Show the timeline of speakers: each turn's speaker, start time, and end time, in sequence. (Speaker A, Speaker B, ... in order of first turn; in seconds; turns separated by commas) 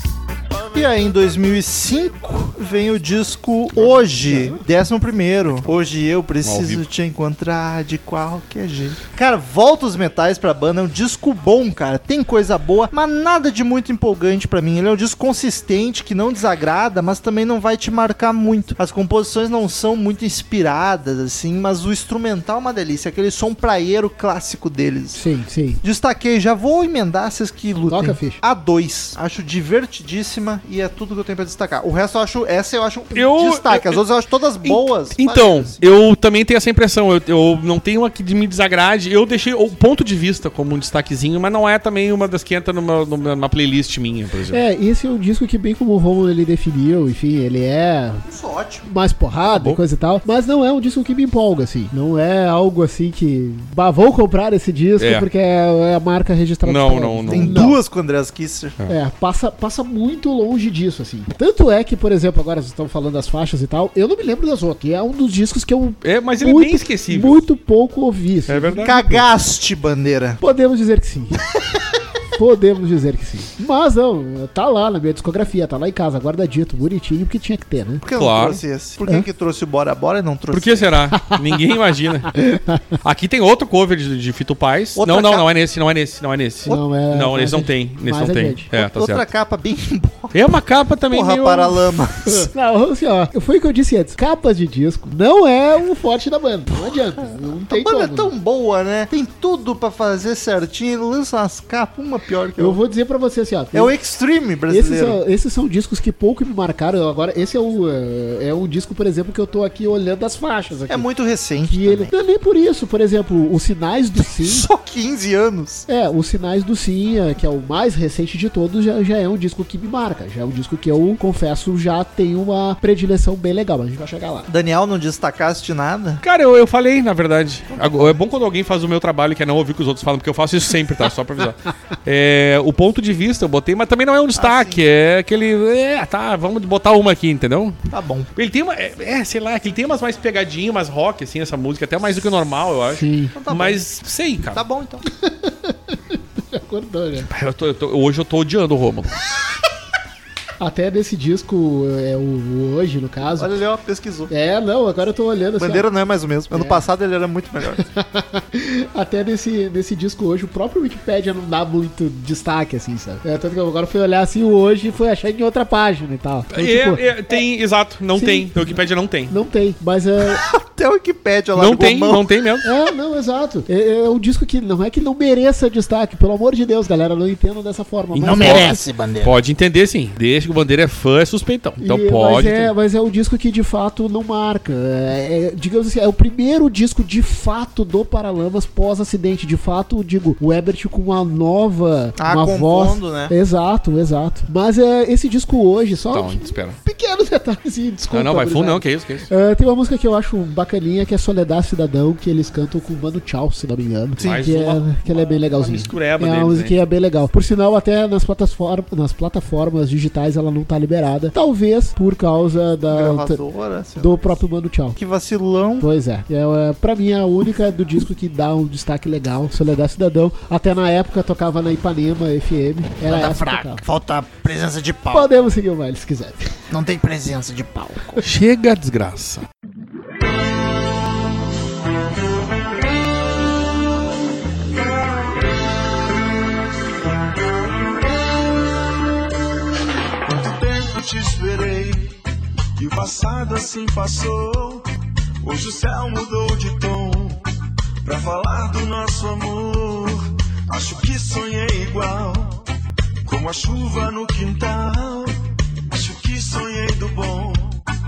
Speaker A: 0.5-1.4, Speaker B: 0.7-25.2, Speaker C: 4.2-4.6, Speaker D: 6.4-6.8, Speaker C: 25.1-25.8, Speaker B: 25.8-35.8, Speaker C: 27.9-28.4, Speaker D: 33.1-34.0, Speaker D: 34.6-44.6, Speaker C: 44.5-48.2, Speaker B: 48.2-48.9, Speaker C: 48.8-57.8, Speaker D: 49.5-49.8, Speaker D: 55.0-55.3, Speaker D: 56.6-57.6, Speaker B: 57.3-58.8, Speaker C: 58.9-69.2, Speaker D: 66.0-67.4, Speaker D: 68.5-68.9, Speaker B: 68.8-70.4, Speaker C: 70.4-71.4, Speaker C: 72.3-78.0, Speaker B: 78.0-80.9, Speaker D: 78.1-78.6, Speaker D: 80.5-82.3, Speaker C: 82.3-83.0, Speaker D: 83.0-89.3, Speaker B: 85.0-85.5, Speaker C: 86.7-88.7, Speaker B: 88.7-90.5, Speaker D: 90.3-91.8, Speaker B: 91.1-92.5, Speaker C: 92.2-98.3, Speaker B: 97.7-102.8, Speaker C: 102.6-103.9, Speaker B: 103.7-105.2, Speaker C: 104.7-111.0, Speaker B: 110.9-112.1, Speaker C: 111.6-114.7, Speaker B: 114.4-115.8, Speaker C: 115.9-124.5, Speaker B: 124.5-126.2, Speaker D: 126.2-137.8, Speaker B: 134.3-134.8, Speaker B: 137.9-138.3, Speaker D: 138.3-144.6, Speaker C: 142.9-143.3, Speaker B: 143.3-143.8, Speaker B: 144.4-145.0, Speaker C: 145.1-147.3, Speaker D: 147.3-149.1, Speaker C: 150.6-153.5, Speaker B: 153.4-154.3, Speaker C: 154.3-155.8, Speaker B: 155.6-157.8, Speaker C: 156.5-156.8, Speaker C: 157.8-167.1, Speaker D: 166.5-169.3, Speaker C: 168.1-168.7, Speaker C: 169.3-170.4, Speaker B: 170.4-172.2, Speaker D: 171.6-172.7, Speaker C: 172.6-178.8, Speaker D: 178.1-182.7, Speaker E: 178.2-179.3, Speaker C: 181.8-213.4, Speaker B: 192.2-193.3, Speaker D: 196.1-196.8, Speaker D: 198.1-199.3, Speaker B: 204.2-204.4, Speaker D: 204.2-206.8, Speaker B: 212.9-214.3, Speaker C: 214.0-214.9, Speaker B: 214.9-215.9, Speaker C: 215.8-223.8, Speaker E: 223.1-225.3, Speaker C: 225.1-226.6, Speaker E: 226.7-228.2, Speaker D: 228.2-229.4, Speaker A: 240.2-242.1, Speaker A: 242.8-244.8, Speaker A: 245.4-247.4, Speaker A: 248.0-252.6, Speaker A: 253.2-255.3, Speaker A: 255.9-257.8